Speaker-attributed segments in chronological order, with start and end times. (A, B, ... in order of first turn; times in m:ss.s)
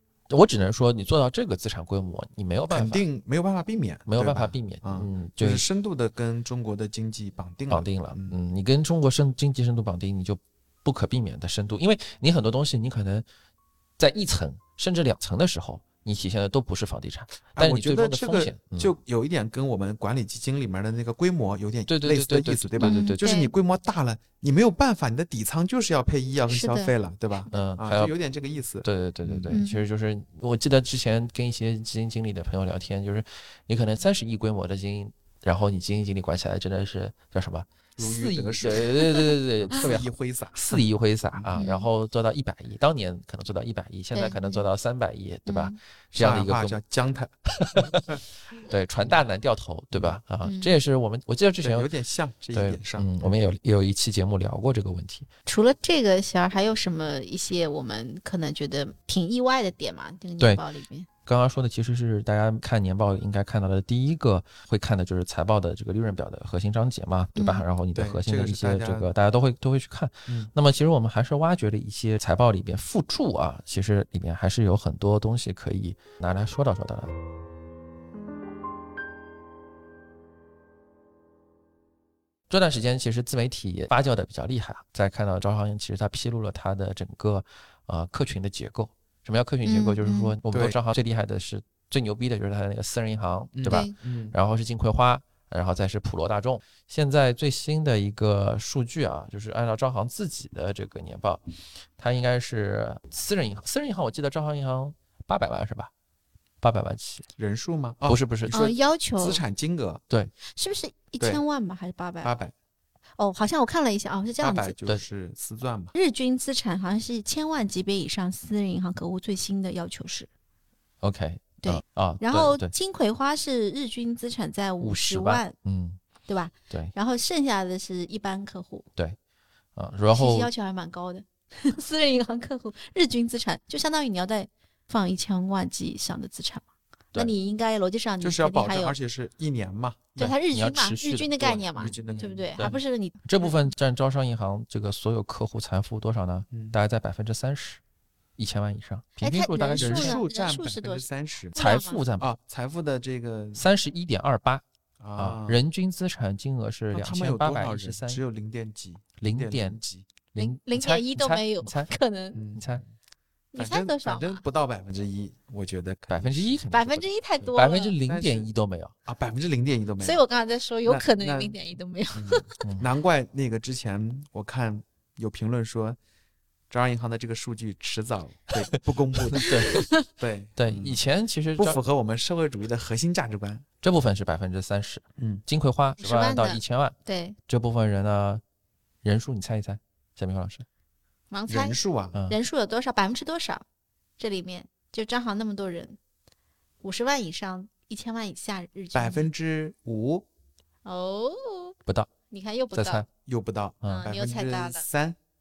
0:00.3-0:03.0 A
0:02.7-0:08.4 B
0:04.1-0:05.6 A
0:07.7-0:13.2 A
0:14.0-0:19.0 A
0:17.6-0:29.6 B
0:21.9-0:23.3 A
0:22.8-0:23.5 C
0:26.5-0:26.9 C
0:27.5-0:28.1 A
0:28.8-0:46.8 A
0:29.5-0:29.8 C
0:38.0-0:41.6 B
0:41.6-0:41.9 C
0:44.1-0:44.6 C
0:45.5-0:45.8 C
0:46.2-0:48.2 B
0:47.6-0:51.9 A
0:49.9-0:50.2 B
0:50.4-0:50.7 C
0:51.6-0:53.4 B
0:52.5-0:55.3 A
0:55.5-1:01.1 C
1:01.2-1:17.1 A
1:07.4-1:07.6 C
1:08.0-1:09.1 B
1:22.5-1:41.4 A
1:29.6-1:30.4 C
1:30.5-1:30.8 B
1:33.5-1:34.4 B
1:42.0-1:45.9 A
1:46.6-1:47.3 A
1:47.4-1:50.0 B
1:48.0-1:48.6 A
1:48.5-1:49.4 C
1:50.5-1:52.3 C
1:52.2-1:52.5 B
1:53.2-1:54.8 C
1:54.4-1:55.9 B
1:55.9-2:00.3 C
2:01.0-2:02.7 A
2:01.6-2:05.5 C
2:04.8-2:06.0 A
2:06.3-2:08.9 C
2:09.8-2:10.5 A
2:10.1-2:19.0 C
2:18.2-2:20.3 B
2:20.2-2:23.5 C
2:20.2-2:27.8 A
2:21.7-2:22.8 B
2:26.5-2:26.8 B
2:28.4-2:30.2 A
2:29.2-2:32.0 C
2:29.8-2:31.6 B
2:31.6-2:32.3 A
2:32.2-2:33.7 B
2:33.6-2:34.6 A
2:35.0-2:35.6 B
2:35.2-2:38.2 A
2:36.9-2:40.1 B
2:39.2-2:39.8 A
2:40.3-2:41.9 A
2:40.4-2:42.4 C
2:42.3-2:42.8 B
2:42.6-2:42.8 A
2:43.5-2:44.4 C
2:43.6-2:46.6 B
2:46.1-2:48.9 A
2:46.7-2:48.0 C
2:48.1-2:48.5 B
2:49.1-2:50.2 B
2:50.0-2:52.6 C
2:50.8-2:51.6 B
2:52.1-2:56.0 B
2:52.6-2:52.9 A
2:56.7-2:59.6 B
2:59.3-2:59.9 A
3:00.2-3:01.0 B
3:00.6-3:01.8 A
3:01.6-3:03.6 B
3:03.8-3:07.0 A
3:05.2-3:05.4 B
3:06.0-3:07.4 C
3:07.5-3:08.4 A
3:09.0-3:10.6 A
3:11.3-3:11.8 C
3:11.5-3:12.2 B
3:12.1-3:12.4 A
3:12.3-3:13.6 C
3:14.2-3:16.0 C
3:16.8-3:19.3 C
3:18.9-3:20.3 B
3:20.8-3:23.0 C
3:22.7-3:23.1 A
3:23.3-3:25.2 B
3:23.9-3:24.8 C